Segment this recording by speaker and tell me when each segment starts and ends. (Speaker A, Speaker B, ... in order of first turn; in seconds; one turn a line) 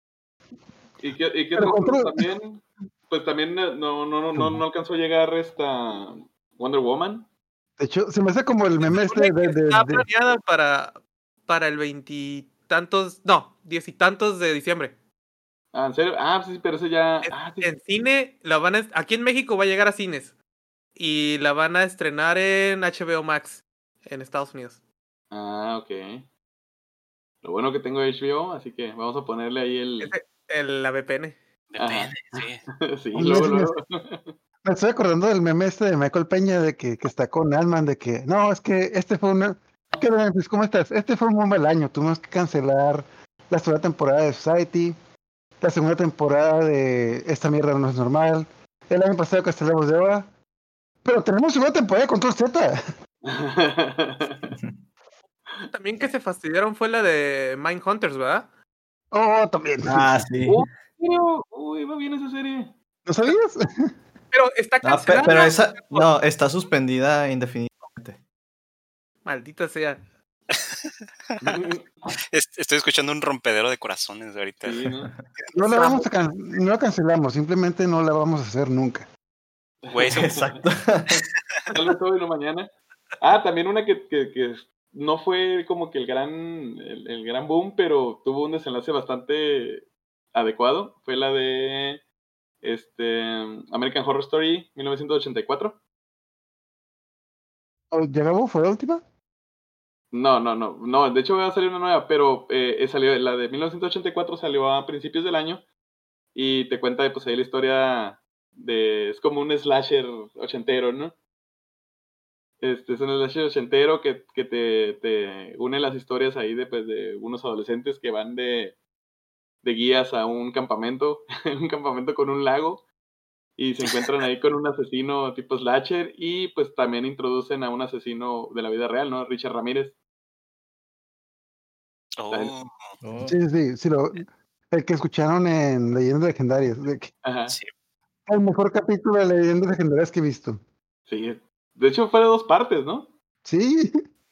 Speaker A: 1.0-7.3
Speaker B: 1.5-2.2
Speaker B: 7.8-10.0
Speaker C: 9.0-14.9
Speaker A: 15.7-17.7
Speaker C: 17.2-20.3
Speaker C: 21.0-24.8
Speaker A: 25.3-26.3
Speaker A: 27.4-30.1
Speaker C: 30.0-31.4
Speaker D: 31.7-32.6
Speaker A: 31.8-34.3
Speaker B: 33.1-33.7
Speaker B: 34.6-45.0
Speaker B: 45.6-50.3
Speaker B: 51.0-52.8
Speaker A: 53.2-54.5
Speaker C: 55.6-58.5
Speaker B: 59.1-60.1
Speaker E: 59.9-60.8
Speaker A: 60.5-62.7
Speaker B: 63.0-63.9
Speaker C: 64.3-66.1
Speaker E: 64.8-68.2
Speaker C: 69.2-70.0
Speaker D: 70.5-71.7
Speaker A: 71.4-71.9
Speaker D: 72.3-74.9
Speaker A: 74.6-75.1
Speaker E: 75.0-75.2
Speaker B: 75.5-79.1
Speaker C: 75.6-76.1
Speaker A: 79.8-80.6
Speaker D: 79.9-80.3
Speaker E: 80.1-81.2
Speaker A: 81.7-92.0
Speaker A: 92.6-95.8
Speaker B: 97.9-99.0
Speaker A: 100.1-105.6
Speaker A: 106.3-111.2
Speaker A: 112.6-118.8
Speaker A: 119.6-122.8
Speaker A: 123.6-130.0
Speaker D: 132.2-132.9
Speaker E: 133.0-133.3
Speaker B: 133.2-137.1
Speaker A: 137.2-137.6
Speaker B: 138.3-140.6
Speaker A: 141.1-143.1
Speaker B: 143.4-144.0